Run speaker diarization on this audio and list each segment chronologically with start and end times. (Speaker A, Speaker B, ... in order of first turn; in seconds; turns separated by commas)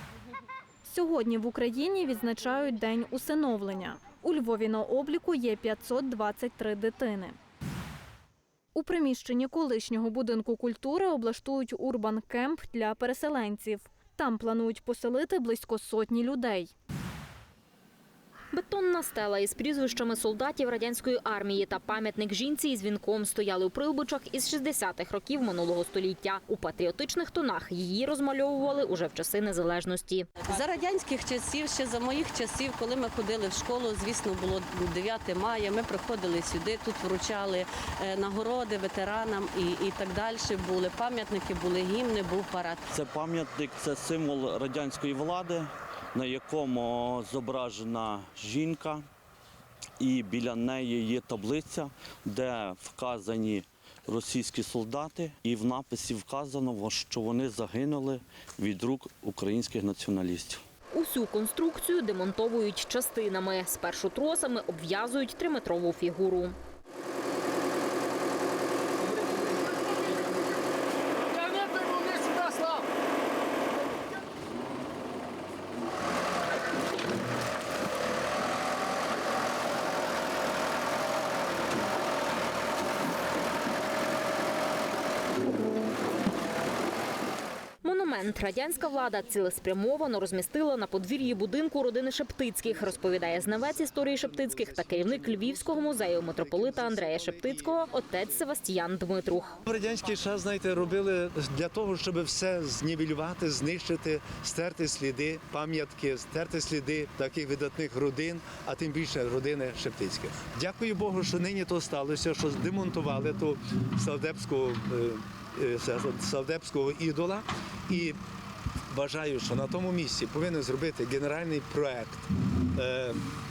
Speaker A: 0.8-7.4, Speaker A: 8.7-16.7, Speaker B: 18.5-30.3, Speaker C: 30.4-42.9, Speaker D: 42.9-49.0, Speaker D: 50.0-60.6, Speaker B: 60.9-66.5, Speaker B: 87.8-99.6, Speaker E: 94.7-95.2, Speaker E: 96.4-97.6, Speaker E: 99.7-118.2, Speaker E: 118.9-123.2